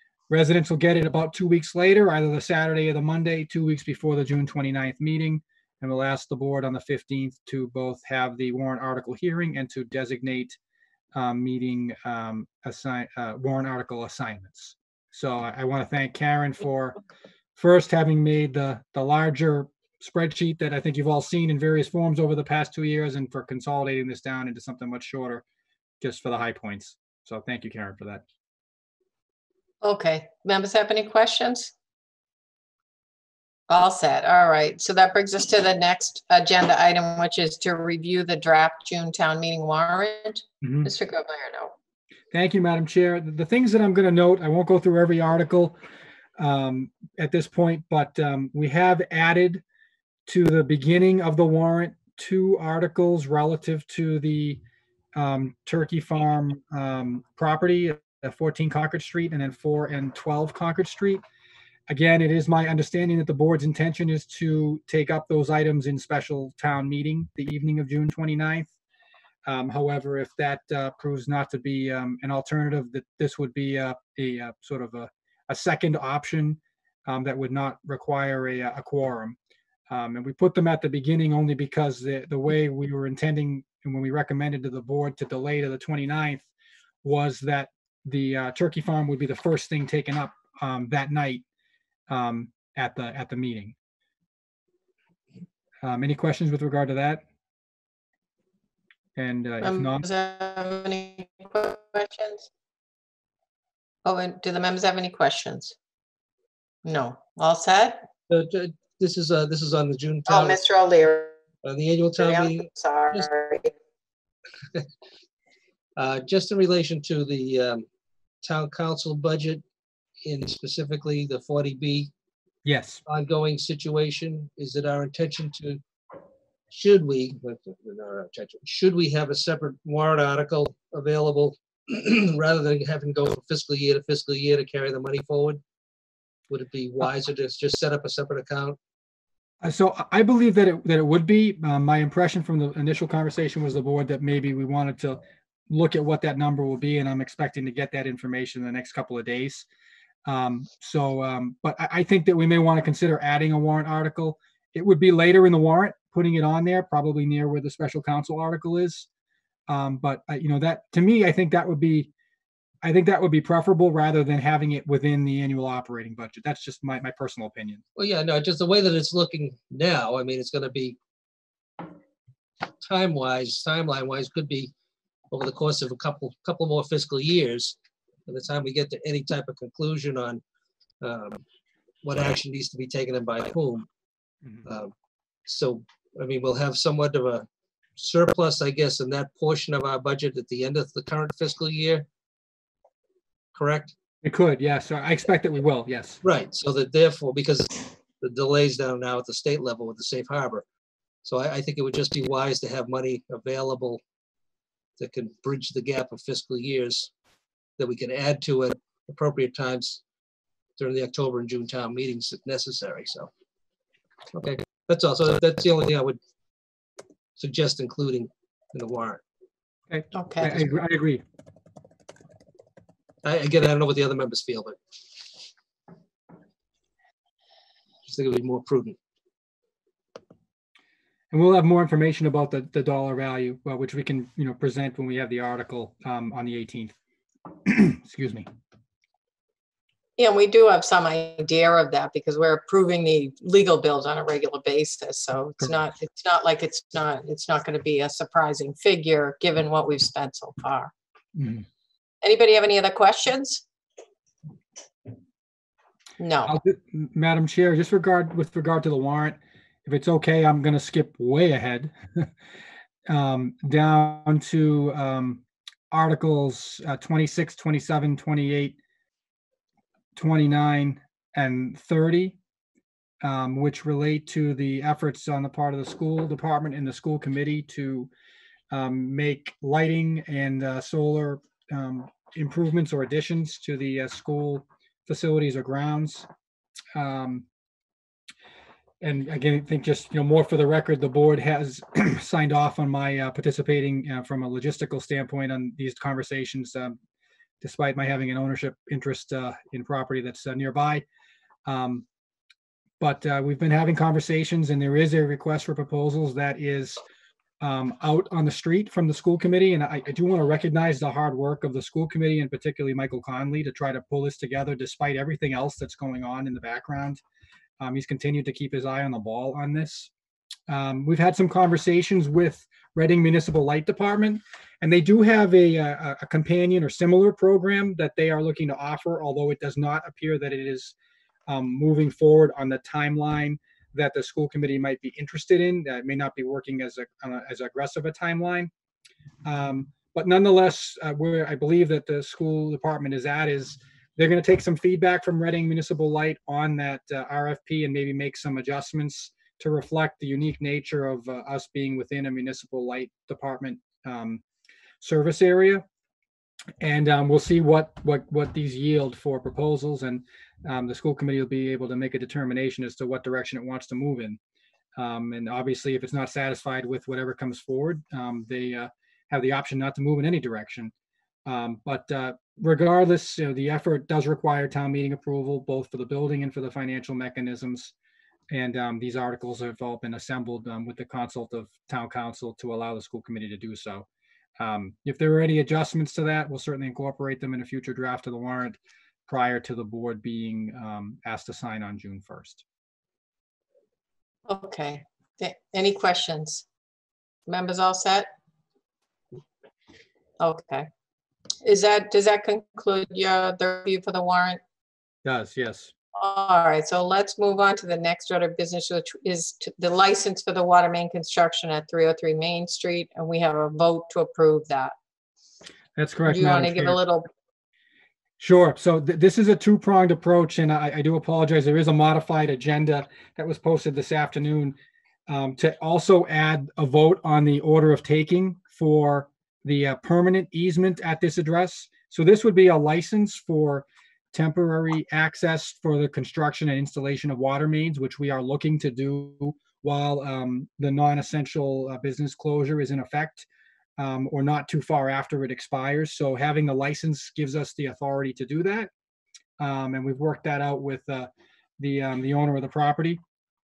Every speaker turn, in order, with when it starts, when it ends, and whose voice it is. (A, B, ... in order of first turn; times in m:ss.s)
0:00.3-0:10.6 A
0:11.1-0:17.0 A
0:17.6-0:25.4 A
0:26.0-0:28.2 A
0:29.8-0:31.7 B
0:33.7-0:41.7 B
0:40.6-0:40.9 A
0:42.3-0:45.8 A
0:46.4-0:49.6 A
0:50.3-0:54.6 A
0:55.1-1:01.2 A
1:01.9-1:08.7 A
1:09.4-1:19.4 A
1:19.9-1:26.5 A
1:27.0-1:31.4 A
1:32.1-1:33.7 A
1:35.8-1:37.2 A
1:39.2-1:40.0 A
1:39.6-1:42.5 B
1:44.0-1:45.7 B
1:46.8-1:48.0 B
1:48.3-1:50.6 C
1:50.3-1:51.4 B
1:51.6-1:53.2 C
1:52.2-1:53.7 B
1:56.0-1:57.8 C
1:58.4-1:59.6 C
2:00.2-2:02.1 C
2:02.6-2:03.0 A
2:03.1-2:05.8 C
2:06.7-2:15.6 C
2:16.5-2:18.8 C
2:19.6-2:29.7 A
2:30.2-2:39.1 A
2:39.7-2:42.1 A
2:42.8-2:47.8 A
2:48.0-2:51.0 C
2:52.8-2:54.7 C
2:55.3-2:57.8 C
2:58.3-3:00.4 C
3:01.0-3:01.4 C
3:02.0-3:03.9 C
3:04.6-3:04.9 C
3:05.4-3:07.4 C
3:08.0-3:12.0 C
3:13.5-3:13.9 C
3:14.2-3:16.2 A
3:16.2-3:20.6 C
3:21.2-3:24.0 C
3:25.0-3:27.1 C
3:27.8-3:30.0 C
3:30.8-3:33.3 C
3:34.3-3:36.2 C
3:37.4-3:39.2 C
3:39.9-3:41.2 A
3:40.1-3:40.6 B
3:43.2-3:44.8 C
3:48.1-3:49.0 C
3:51.3-3:56.9 A
3:57.6-3:58.5 A
4:00.2-4:10.9 B
4:11.4-4:11.6 A
4:12.2-4:13.6 B
4:16.2-4:16.6 B
4:16.4-4:22.3 A
4:23.1-4:28.8 A
4:30.2-4:32.4 A
4:33.2-4:38.1 A
4:38.7-4:46.3 A
4:46.9-4:47.4 A
4:49.0-4:57.0 A
4:57.6-5:01.0 A
5:01.6-5:02.0 A
5:03.0-5:07.0 A
5:07.6-5:17.2 A
5:17.8-5:20.1 A
5:20.7-5:30.9 A
5:31.5-5:38.7 A
5:39.4-5:54.4 A
5:55.0-5:55.8 A
5:56.8-6:04.4 A
6:05.0-6:10.9 A
6:11.4-6:17.9 A
6:18.5-6:24.1 A
6:24.6-6:32.6 A
6:34.5-6:36.6 B
6:37.5-6:38.3 B
6:40.4-6:40.9 B
6:41.6-6:44.6 B
6:45.2-6:45.9 A
6:46.2-6:54.9 B
6:56.0-6:57.0 A
6:56.2-6:57.3 B
6:58.4-7:04.8 A
7:05.3-7:23.5 A
7:24.0-7:28.9 A
7:29.6-7:33.2 A